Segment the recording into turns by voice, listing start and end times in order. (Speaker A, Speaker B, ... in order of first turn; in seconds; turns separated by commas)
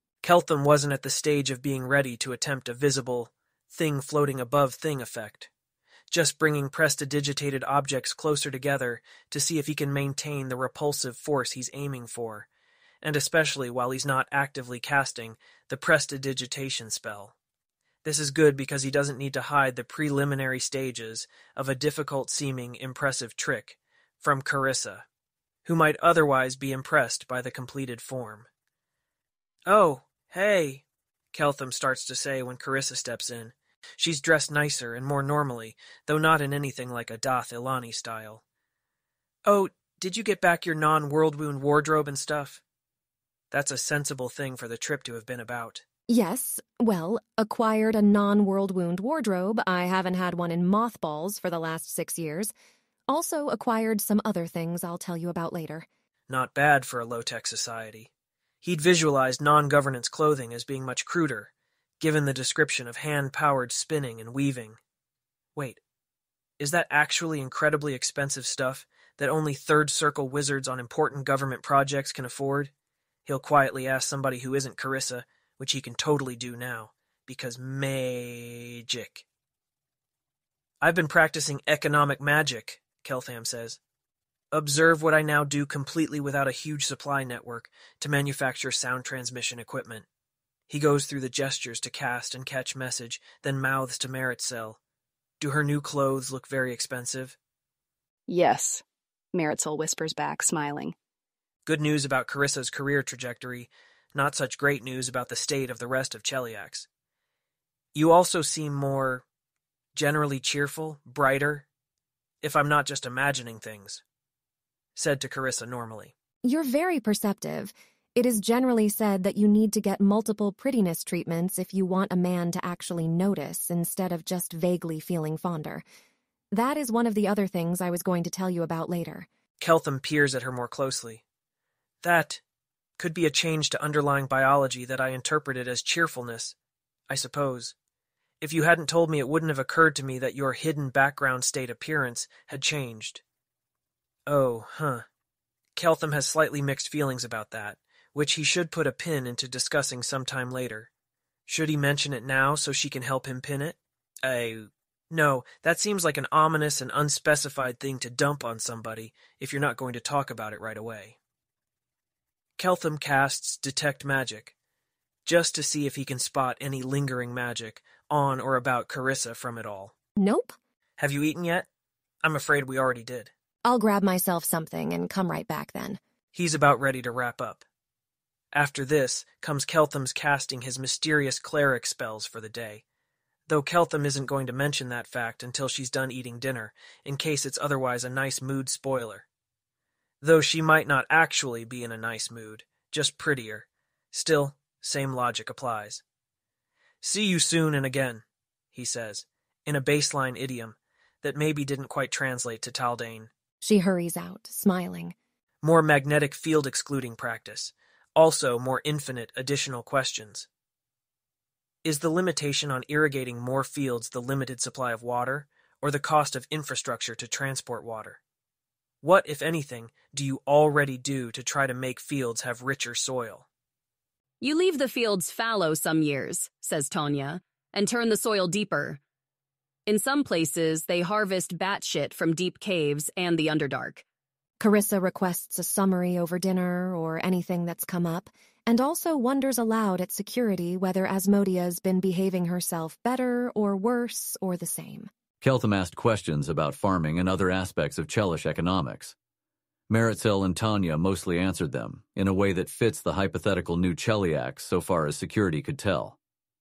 Speaker A: 0.2-5.5, Speaker A: 6.1-12.5, Speaker A: 13.0-17.3, Speaker A: 18.0-25.1, Speaker A: 25.7-28.5, Speaker A: 29.7-38.4, Speaker A: 39.5-42.6, Speaker A: 43.5-45.8, Speaker B: 46.1-52.5, Speaker B: 53.1-55.9, Speaker A: 56.3-58.1, Speaker A: 58.6-64.8, Speaker A: 66.6-72.7, Speaker A: 73.3-79.2, Speaker A: 80.8-83.8, Speaker A: 84.5-90.1, Speaker A: 90.7-94.8, Speaker A: 95.4-97.4, Speaker C: 98.3-98.8, Speaker C: 99.3-101.0, Speaker A: 101.7-106.9, Speaker A: 107.9-109.2, Speaker A: 110.0-111.7, Speaker A: 112.4-114.0, Speaker A: 115.0-116.1, Speaker B: 116.4-125.8, Speaker B: 126.5-129.3, Speaker A: 129.6-131.2, Speaker A: 132.0-132.4, Speaker A: 133.0-136.6, Speaker A: 137.1-137.8, Speaker A: 138.4-143.2, Speaker A: 144.3-145.1, Speaker A: 145.8-150.9, Speaker A: 151.5-161.2, Speaker A: 162.6-164.5, Speaker A: 165.2-169.9, Speaker B: 170.2-170.6, Speaker A: 171.0-171.7, Speaker A: 172.2-173.3, Speaker B: 173.6-176.0, Speaker A: 176.3-177.6, Speaker A: 178.5-182.8, Speaker A: 183.5-189.2, Speaker A: 190.2-196.0, Speaker A: 197.0-203.3, Speaker B: 203.6-205.2, Speaker A: 205.6-210.5, Speaker A: 211.8-218.2, Speaker A: 219.0-223.4, Speaker D: 224.4-229.0, Speaker D: 229.9-234.0, Speaker B: 234.6-245.1, Speaker E: 245.4-249.2, Speaker E: 249.9-256.2